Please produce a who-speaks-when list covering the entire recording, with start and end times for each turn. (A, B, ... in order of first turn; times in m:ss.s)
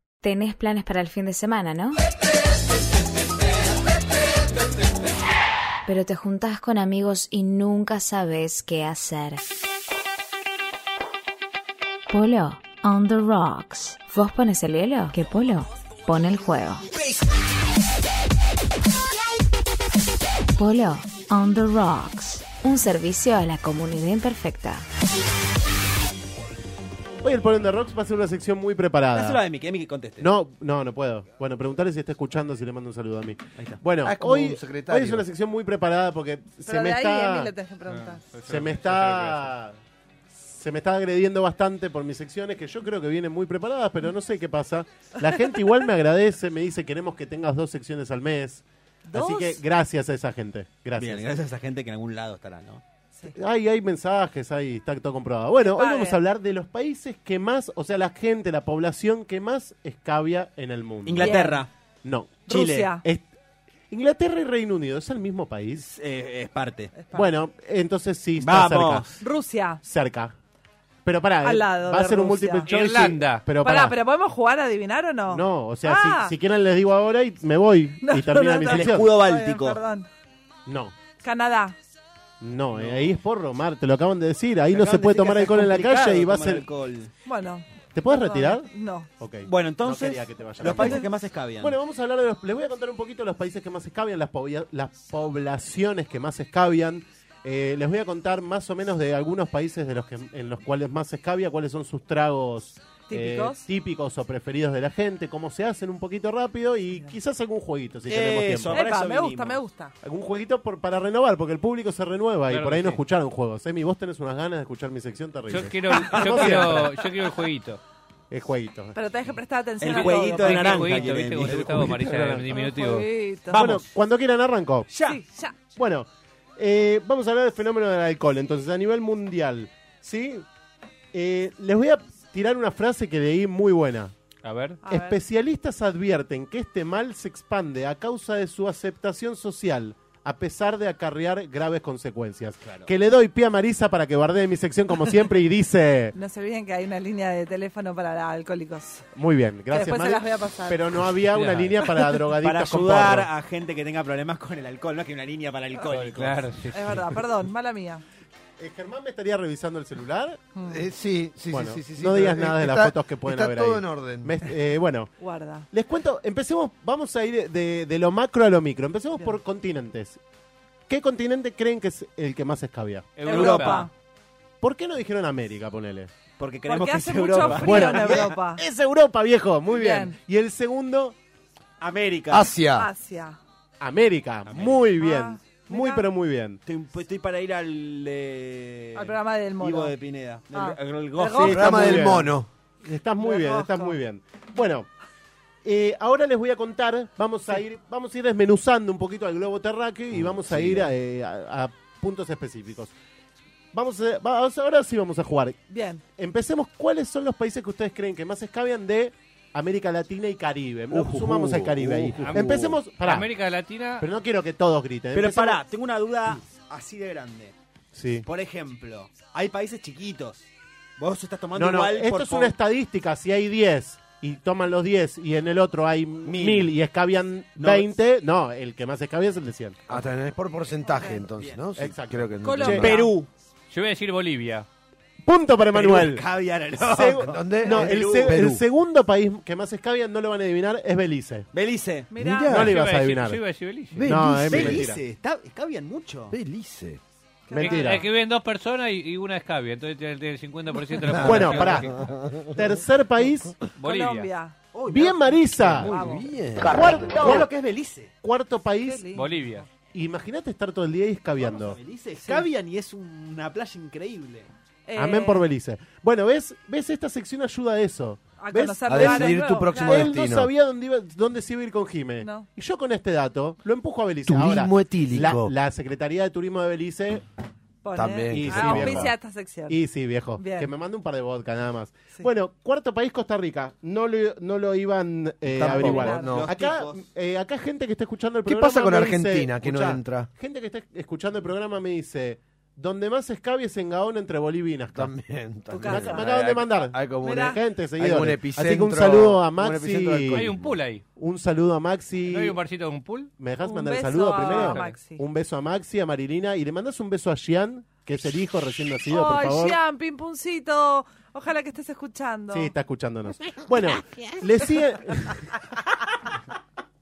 0:00.2-0:02.0 A
0:05.9-0:09.4 A
0:12.1-0:16.8 A
0:20.6-0:24.8 A
0:27.2-0:29.4 B
0:29.1-0:30.3 C
0:30.2-0:37.5 B
0:34.0-0:35.3 D
0:36.6-0:38.2 E
0:37.9-0:39.5 F
0:38.5-0:39.8 B
0:40.4-0:51.3 B
0:49.1-0:49.6 E
0:51.0-0:52.8 C
0:53.3-1:01.4 B
0:55.6-0:56.2 E
1:01.0-1:01.7 C
1:01.2-1:01.6 E
1:02.0-1:02.5 B
1:02.5-1:03.0 E
1:02.5-1:02.9 C
1:03.0-1:03.3 B
1:03.9-1:05.9 B
1:05.8-1:06.9 C
1:07.0-1:07.3 E
1:07.1-1:09.2 B
1:08.4-1:09.1 C
1:09.2-1:09.8 E
1:09.8-1:10.4 B
1:11.0-1:14.0 B
1:11.4-1:12.7 E
1:12.7-1:13.4 F
1:13.6-1:16.4 E
1:15.3-1:19.1 B
1:18.0-1:20.1 E
1:18.6-1:19.8 C
1:20.7-1:20.9 B
1:21.2-1:21.8 E
1:22.4-1:26.6 B
1:22.8-1:23.1 C
1:24.7-1:27.1 C
1:27.2-1:29.1 E
1:27.9-1:31.1 B
1:29.4-1:31.8 C
1:31.6-1:48.8 B
1:43.1-1:43.6 E
1:48.1-1:49.6 C
1:48.7-1:49.9 E
1:50.0-1:56.9 B
1:52.5-1:53.0 F
1:55.5-1:57.8 F
1:55.9-1:57.3 C
1:58.3-1:59.0 B
1:58.9-2:01.2 E
1:59.8-2:02.1 C
1:59.9-2:03.1 F
2:02.5-2:03.7 E
2:03.5-2:03.8 C
2:03.5-2:04.9 B
2:04.9-2:05.2 C
2:05.0-2:05.6 E
2:05.8-2:10.5 B
2:11.1-2:14.1 B
2:14.4-2:14.8 F
2:14.8-2:15.2 E
2:14.9-2:26.2 B
2:26.1-2:29.0 E
2:29.2-2:33.3 B
2:29.7-2:30.8 E
2:31.4-2:31.7 F
2:31.8-2:32.2 E
2:32.4-2:36.5 C
2:35.8-2:37.1 F
2:36.7-2:38.0 E
2:38.6-2:40.5 B
2:40.6-2:40.8 E
2:40.7-2:44.4 D
2:41.5-2:45.1 B
2:45.2-2:45.7 E
2:45.7-2:50.2 B
2:50.9-2:53.1 B
2:53.2-2:53.8 F
2:53.2-2:53.9 E
2:53.3-2:53.9 C
2:54.6-2:56.1 B
2:56.4-2:58.4 C
2:56.7-2:58.6 E
2:57.4-3:01.2 B
2:59.7-3:00.2 E
3:01.8-3:02.5 C
3:02.3-3:02.9 D
3:02.7-3:03.4 E
3:03.8-3:06.6 B
3:04.5-3:04.8 C
3:05.0-3:06.1 E
3:06.6-3:12.0 C
3:09.0-3:09.9 E
3:10.5-3:11.7 E
3:11.4-3:14.9 B
3:11.4-3:12.5 D
3:13.2-3:14.0 E
3:15.6-3:22.9 B
3:20.1-3:20.9 D
3:23.7-3:25.6 B
3:25.7-3:26.0 E
3:26.2-3:33.3 B
3:30.9-3:32.8 D
3:32.1-3:34.1 F
3:34.0-3:35.6 B
3:35.1-3:37.6 C
3:37.9-3:38.3 B
3:38.2-3:40.5 C
3:41.0-3:42.5 C
3:41.6-3:49.9 B
3:46.2-3:46.7 C
3:47.6-3:47.9 C
3:49.9-3:53.0 D
3:50.9-3:51.2 E
3:51.3-3:51.6 C
3:51.8-3:53.0 B
3:52.4-3:53.2 E
3:52.8-3:53.3 C
3:53.7-3:54.7 F
3:55.2-4:01.5 B
3:55.7-3:58.4 C
3:57.2-3:58.6 D
4:01.5-4:02.1 C
4:02.1-4:02.7 E
4:02.2-4:02.8 D
4:02.4-4:03.4 B
4:02.6-4:04.1 F
4:03.9-4:04.9 D
4:04.0-4:05.0 B
4:04.4-4:06.4 C
4:06.3-4:07.0 D
4:07.5-4:08.0 E
4:07.5-4:08.1 B
4:07.6-4:12.0 F
4:10.9-4:12.6 D
4:11.1-4:11.9 B
4:12.4-4:13.6 B
4:13.8-4:14.3 F
4:13.8-4:14.6 E
4:14.7-4:15.4 C
4:14.9-4:15.9 B
4:15.6-4:17.1 D
4:15.8-4:16.3 E
4:16.6-4:17.5 B
4:17.2-4:18.1 C
4:18.2-4:19.1 B
4:18.8-4:19.7 E
4:19.2-4:19.6 F
4:19.9-4:21.8 B
4:21.4-4:24.5 C
4:24.9-4:25.5 E
4:25.0-4:37.2 B
4:28.4-4:30.1 E
4:28.9-4:30.5 D
4:32.2-4:32.5 E
4:34.2-4:35.5 D
4:37.8-4:39.8 E
4:38.0-4:39.1 D
4:38.3-4:39.1 B
4:39.7-4:55.1 B
4:40.4-4:40.7 E
4:45.5-4:46.5 D
4:45.7-4:46.4 E
4:46.1-4:47.0 C
4:48.5-4:50.3 D
4:54.9-5:00.8 D
4:55.7-4:56.3 E
4:55.8-5:00.6 B
4:57.2-4:57.6 E
5:00.3-5:01.0 F
5:01.2-5:02.6 B
5:02.3-5:03.3 F
5:03.4-5:09.8 B
5:03.6-5:05.2 E
5:04.4-5:05.0 F
5:09.1-5:12.7 E
5:12.5-5:15.8 B